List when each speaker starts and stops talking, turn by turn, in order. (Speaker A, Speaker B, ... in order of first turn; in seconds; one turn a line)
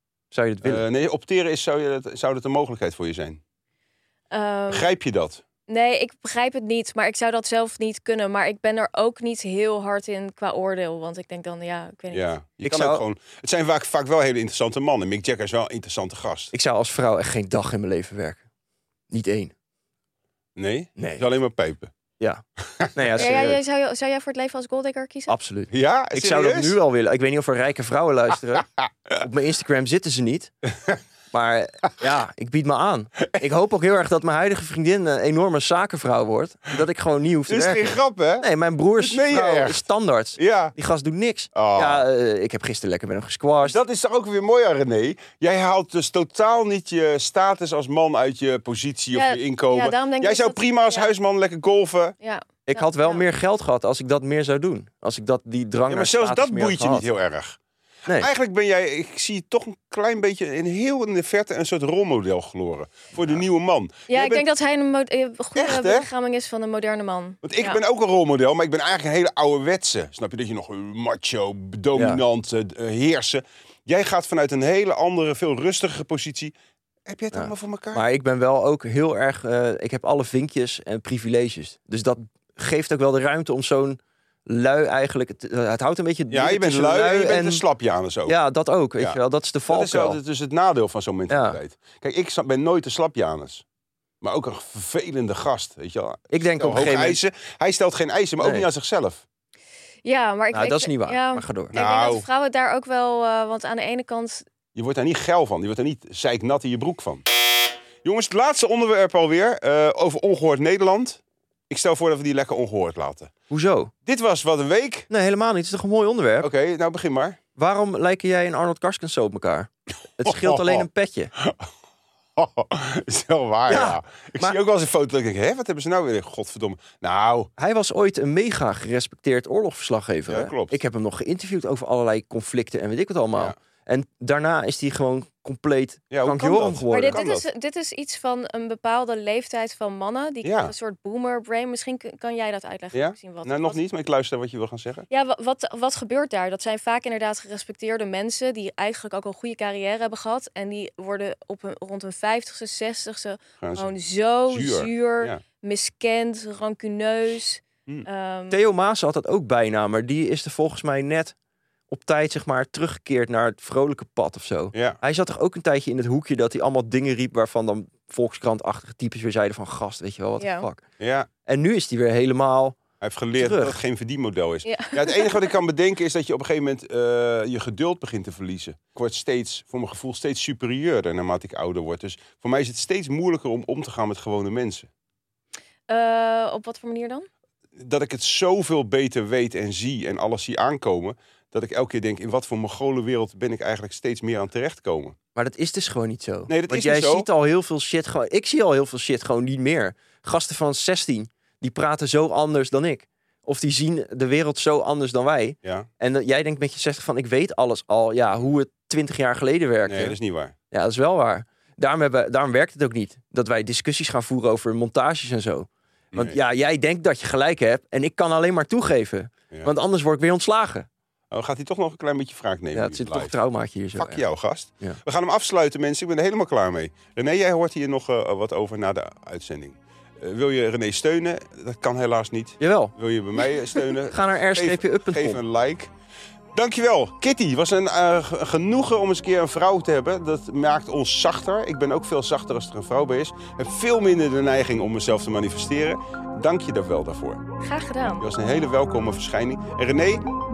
Speaker A: 0.3-0.8
Speaker B: 0.6-3.4
Speaker C: 4.3-4.9
Speaker B: 4.7-5.4
Speaker C: 5.7-12.2
Speaker B: 12.1-16.5
Speaker A: 12.6-13.1
Speaker A: 16.5-18.4
Speaker A: 19.1-19.5
Speaker B: 20.6-21.9
Speaker A: 21.0-21.2
Speaker B: 22.8-23.3
Speaker A: 22.9-23.6
Speaker C: 23.2-25.4
Speaker A: 25.3-28.7
Speaker B: 25.7-26.8
Speaker A: 29.2-30.5
Speaker A: 31.3-43.8
Speaker B: 37.5-38.5
Speaker B: 39.0-39.9
Speaker B: 40.4-40.7
Speaker B: 41.5-42.0
Speaker B: 43.6-52.2
Speaker C: 49.1-51.1
Speaker C: 52.2-53.2
Speaker A: 52.7-57.1
Speaker B: 55.9-57.6
Speaker B: 58.1-64.5
Speaker C: 64.1-67.8
Speaker B: 65.6-66.1
Speaker B: 67.4-76.5
Speaker A: 72.0-72.2
Speaker B: 77.1-78.0
Speaker A: 77.3-87.6
Speaker B: 86.3-88.4
Speaker A: 88.3-90.2
Speaker B: 89.0-93.6
Speaker A: 91.3-91.6
Speaker B: 94.2-99.2
Speaker A: 96.3-97.2
Speaker A: 98.4-98.7
Speaker C: 100.0-104.5
Speaker A: 100.5-101.7
Speaker B: 101.7-102.2
Speaker B: 104.8-107.2
Speaker B: 108.0-113.3
Speaker A: 113.5-113.9
Speaker B: 114.1-115.1
Speaker A: 115.1-116.5
Speaker B: 116.4-117.4
Speaker A: 117.6-121.3
Speaker B: 120.2-120.9
Speaker B: 121.4-121.7
Speaker B: 122.4-127.5
Speaker A: 123.7-124.6
Speaker A: 127.6-137.2
Speaker B: 130.3-130.8
Speaker B: 136.1-137.5
Speaker C: 136.9-143.8
Speaker B: 140.4-140.7
Speaker B: 142.9-145.1
Speaker C: 145.1-158.6
Speaker B: 153.6-153.9
Speaker B: 154.5-155.4
Speaker A: 158.5-161.3
Speaker A: 161.9-170.8
Speaker B: 164.7-165.0
Speaker C: 170.4-170.7
Speaker B: 171.0-171.3
Speaker A: 171.5-172.8
Speaker B: 173.0-184.9
Speaker A: 173.4-173.8
Speaker C: 174.7-175.5
Speaker C: 185.9-187.3
Speaker B: 187.8-195.2
Speaker A: 195.4-210.2
Speaker B: 196.5-197.3
Speaker B: 209.9-210.6
Speaker A: 210.7-220.9
Speaker B: 216.1-216.4
Speaker B: 221.3-223.4
Speaker A: 222.7-224.3
Speaker B: 223.9-235.9
Speaker A: 232.6-232.9
Speaker A: 234.0-235.4
Speaker B: 236.6-247.4
Speaker C: 247.6-248.3
Speaker B: 248.2-250.2